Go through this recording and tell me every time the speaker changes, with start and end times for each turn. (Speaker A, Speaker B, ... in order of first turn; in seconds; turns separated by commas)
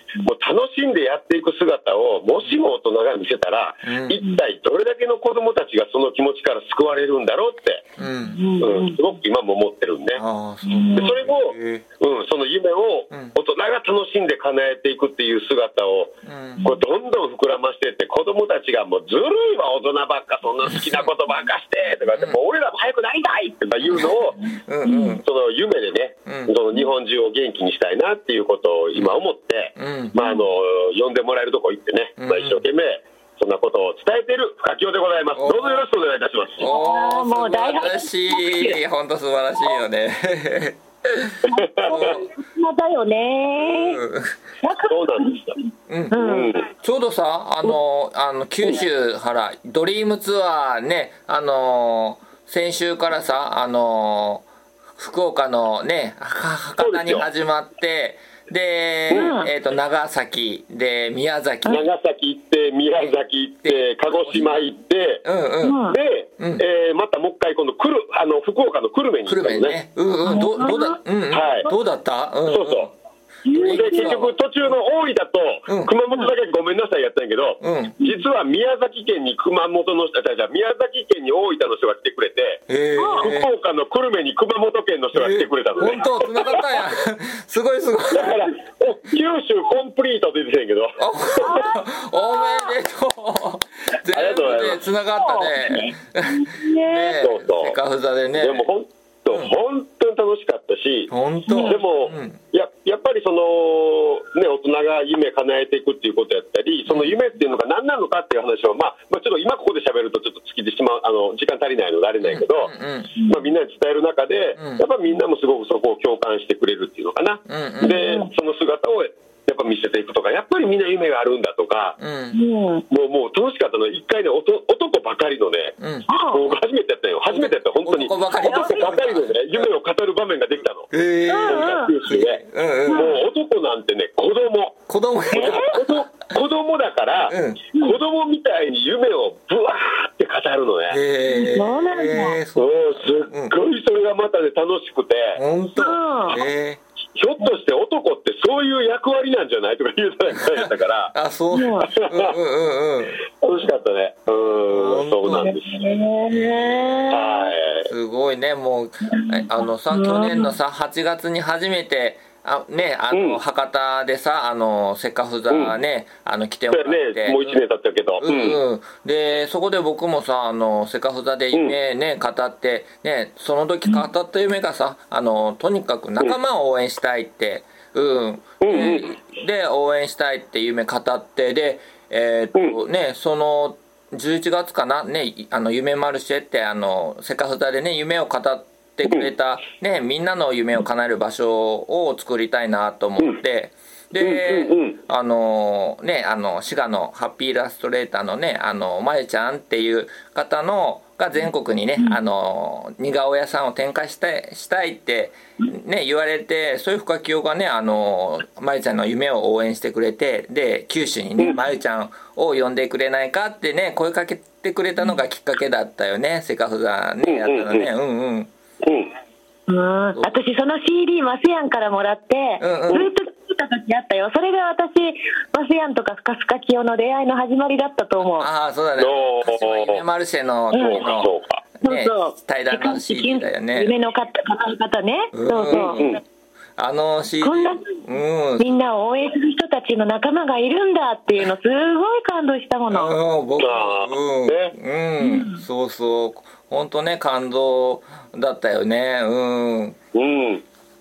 Speaker A: 0.2-7.9, Speaker B: 3.8-4.2, Speaker B: 8.0-8.4, Speaker C: 8.2-9.0, Speaker A: 8.6-10.2, Speaker B: 10.1-11.8, Speaker C: 10.7-11.1, Speaker A: 10.9-24.4, Speaker B: 16.2-16.6, Speaker B: 20.7-21.1, Speaker C: 24.4-25.2, Speaker B: 24.6-25.2, Speaker A: 25.2-36.7, Speaker B: 26.2-26.5, Speaker B: 29.8-30.1, Speaker C: 30.2-30.5, Speaker B: 32.2-32.6, Speaker B: 35.3-35.8, Speaker B: 36.6-42.3, Speaker C: 36.6-38.8, Speaker C: 41.4-44.0, Speaker A: 41.6-42.2, Speaker B: 43.6-44.4, Speaker C: 44.6-46.5, Speaker A: 44.9-45.5, Speaker B: 45.9-54.5, Speaker A: 46.1-46.7, Speaker B: 55.0-61.9, Speaker A: 56.8-57.3, Speaker A: 59.1-59.3, Speaker C: 59.1-59.5, Speaker A: 61.7-65.2, Speaker B: 63.6-64.7, Speaker B: 65.2-65.8, Speaker C: 65.6-66.0, Speaker A: 65.9-69.8, Speaker B: 66.4-66.6, Speaker B: 69.2-72.9, Speaker C: 70.2-71.0, Speaker A: 71.3-71.7, Speaker A: 72.5-72.9, Speaker C: 73.4-74.2, Speaker B: 73.5-74.7, Speaker A: 73.5-82.6, Speaker B: 75.7-75.9, Speaker B: 77.6-78.0, Speaker B: 82.7-83.5, Speaker C: 83.0-83.3, Speaker A: 83.2-86.8, Speaker B: 85.1-88.4, Speaker A: 88.1-91.6, Speaker B: 91.0-98.7, Speaker C: 91.3-92.8, Speaker A: 94.1-94.8, Speaker C: 95.1-97.2, Speaker A: 97.2-97.8, Speaker A: 98.4-112.7, Speaker B: 101.1-102.4, Speaker C: 101.5-101.7, Speaker B: 106.9-107.2, Speaker B: 112.2-113.2, Speaker C: 113.2-113.5, Speaker A: 113.2-122.0, Speaker B: 114.5-114.8, Speaker B: 117.5-117.9, Speaker C: 117.8-118.3, Speaker B: 122.0-122.4, Speaker C: 122.3-122.8, Speaker A: 122.9-125.8, Speaker B: 125.8-126.1, Speaker C: 126.1-126.4, Speaker A: 126.3-130.9, Speaker B: 127.3-129.7, Speaker C: 128.3-129.0, Speaker B: 130.9-133.1, Speaker C: 131.3-131.9, Speaker A: 131.4-141.0, Speaker C: 132.9-133.2, Speaker B: 134.9-135.8, Speaker C: 135.3-135.8, Speaker B: 137.3-137.6, Speaker B: 140.9-143.5, Speaker C: 141.3-142.4, Speaker A: 142.6-145.4, Speaker B: 145.3-146.8, Speaker C: 145.8-146.4, Speaker A: 147.2-151.1, Speaker B: 150.4-153.2, Speaker C: 151.5-151.9, Speaker A: 151.8-152.3, Speaker A: 153.4-155.9, Speaker B: 154.7-155.5, Speaker C: 155.3-157.5, Speaker B: 156.3-157.2, Speaker A: 157.1-157.9, Speaker B: 157.8-167.6, Speaker C: 159.1-160.5, Speaker A: 163.1-163.4, Speaker A: 165.5-165.7, Speaker A: 166.7-168.6, Speaker B: 168.2-218.5, Speaker A: 178.6-179.1, Speaker A: 194.2-195.0, Speaker A: 217.2-217.9, Speaker A: 218.8-219.1, Speaker C: 219.7-228.5, Speaker B: 220.1-220.4, Speaker B: 222.6-223.1, Speaker B: 228.3-233.9, Speaker A: 229.0-230.0, Speaker C: 230.7-231.1, Speaker A: 230.7-231.6, Speaker C: 231.8-236.0, Speaker B: 235.3-236.2, Speaker A: 235.7-236.2, Speaker B: 236.8-238.7, Speaker C: 237.4-238.0, Speaker C: 238.6-243.1, Speaker B: 242.9-250.0, Speaker A: 243.6-244.7, Speaker C: 245.2-245.6, Speaker A: 250.1-250.6